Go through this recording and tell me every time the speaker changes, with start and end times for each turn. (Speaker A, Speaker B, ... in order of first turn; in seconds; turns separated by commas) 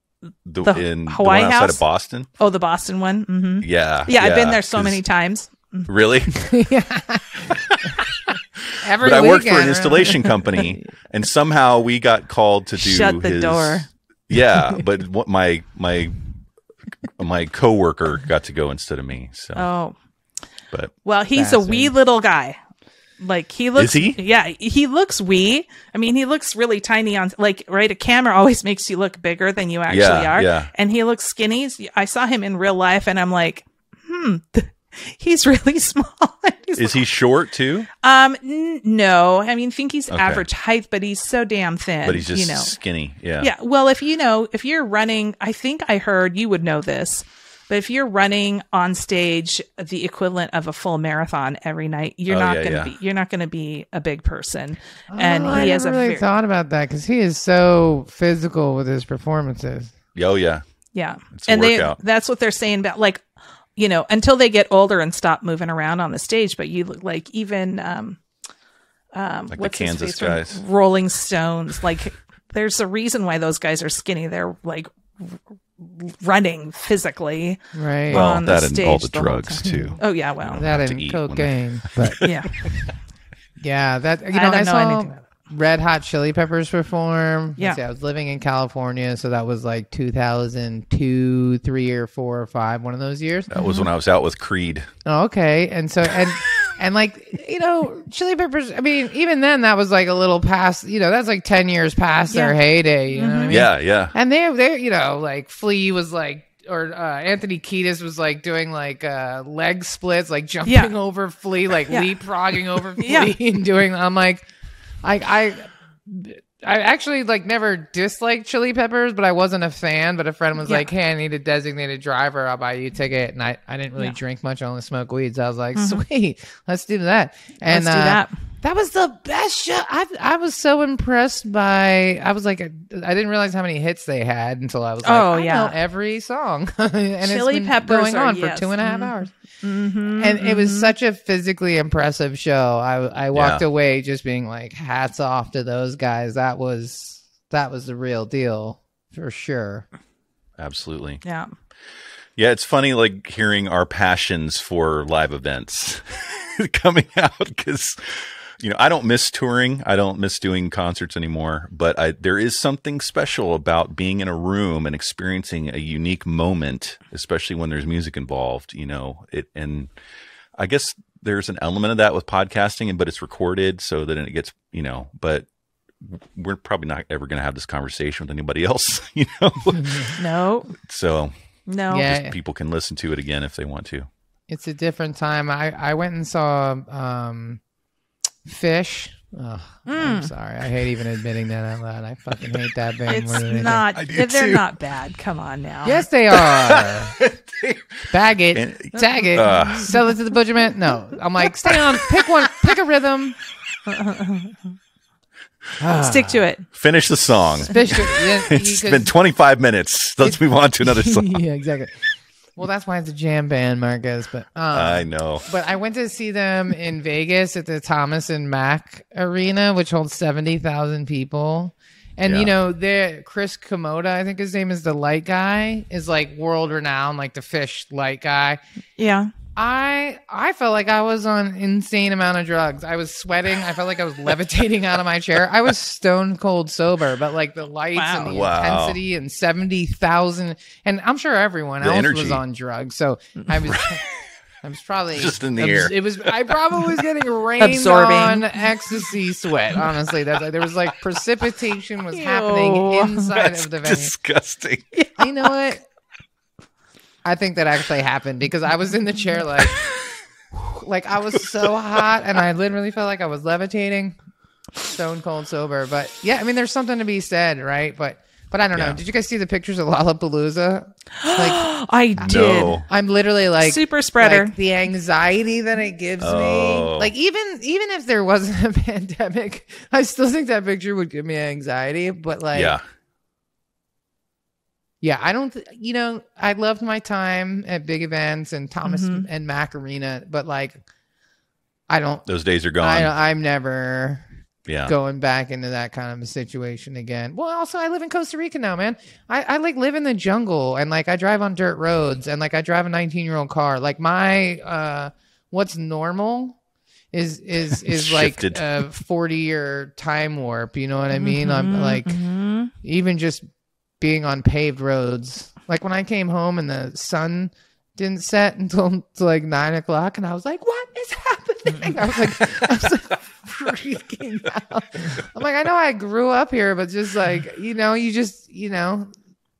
Speaker A: 0.4-2.3, Speaker B: 0.6-1.8, Speaker B: 2.4-5.9, Speaker A: 3.6-5.0, Speaker A: 5.9-6.5, Speaker C: 6.4-10.7, Speaker A: 7.6-7.9, Speaker A: 8.7-16.2, Speaker B: 12.8-13.9, Speaker A: 17.1-19.7, Speaker B: 19.6-19.9, Speaker B: 21.0-22.6, Speaker C: 21.3-21.9, Speaker B: 23.2-37.1, Speaker A: 23.8-24.2, Speaker A: 29.9-30.7, Speaker A: 36.8-37.9, Speaker B: 37.9-42.8, Speaker A: 40.1-40.5, Speaker A: 42.0-43.5, Speaker B: 43.4-56.3, Speaker A: 52.3-52.9, Speaker C: 55.1-59.9, Speaker A: 60.1-60.6, Speaker B: 60.9-63.2, Speaker A: 61.3-62.0, Speaker B: 63.8-68.2, Speaker B: 69.1-80.7, Speaker A: 69.5-70.6, Speaker C: 77.7-78.3, Speaker A: 78.1-82.7, Speaker C: 79.7-80.0, Speaker C: 80.6-82.2, Speaker B: 82.2-82.5, Speaker C: 83.6-93.5, Speaker B: 84.3-85.2, Speaker A: 93.5-94.9, Speaker B: 93.5-93.9, Speaker C: 95.0-114.4, Speaker B: 102.3-102.5, Speaker B: 103.1-103.7, Speaker A: 103.5-104.1, Speaker B: 110.6-110.9, Speaker B: 113.0-113.3, Speaker C: 115.0-139.3, Speaker B: 125.8-126.0, Speaker B: 127.7-128.3, Speaker B: 135.0-135.7, Speaker B: 137.2-140.9, Speaker C: 140.2-149.8, Speaker A: 143.3-143.6, Speaker A: 150.6-151.2, Speaker B: 151.2-151.5, Speaker A: 152.4-169.9, Speaker A: 170.6-175.5, Speaker A: 176.0-180.2, Speaker C: 179.8-180.1, Speaker B: 180.2-180.7, Speaker A: 180.7-181.3, Speaker B: 181.7-182.1, Speaker C: 181.9-182.3, Speaker A: 182.1-184.1, Speaker C: 184.5-187.6, Speaker C: 188.4-193.8, Speaker B: 189.8-190.3, Speaker B: 193.1-196.0, Speaker A: 193.9-194.7, Speaker C: 195.8-197.3, Speaker A: 196.3-200.1, Speaker C: 198.1-203.4, Speaker B: 199.4-199.8, Speaker A: 201.6-202.2, Speaker B: 203.9-204.7, Speaker C: 205.8-206.4, Speaker B: 206.0-206.7, Speaker A: 206.7-211.4, Speaker C: 207.6-209.1, Speaker C: 210.2-228.6, Speaker A: 214.7-215.5, Speaker A: 222.2-222.5, Speaker B: 229.0-229.3, Speaker C: 229.6-244.0, Speaker B: 237.9-238.4, Speaker A: 238.2-239.0, Speaker A: 241.8-242.4, Speaker A: 243.7-244.0, Speaker C: 244.6-254.1, Speaker A: 245.1-247.0, Speaker B: 247.6-248.6, Speaker B: 252.1-253.3, Speaker A: 253.3-254.8, Speaker B: 254.9-255.2, Speaker C: 255.2-255.8, Speaker C: 257.2-259.9, Speaker C: 260.5-264.2, Speaker C: 264.8-271.7, Speaker A: 268.7-269.0, Speaker B: 271.2-272.8, Speaker A: 272.2-272.8, Speaker C: 272.2-282.8, Speaker B: 273.6-274.5, Speaker A: 276.2-277.1, Speaker A: 282.5-282.8, Speaker C: 285.0-290.8, Speaker B: 288.8-289.2, Speaker C: 291.9-292.2, Speaker A: 292.2-293.1, Speaker C: 292.8-294.3, Speaker A: 294.6-294.9, Speaker C: 294.9-306.6, Speaker C: 307.1-312.2, Speaker A: 307.8-308.8, Speaker B: 311.1-312.7, Speaker C: 312.8-313.4, Speaker C: 314.0-329.1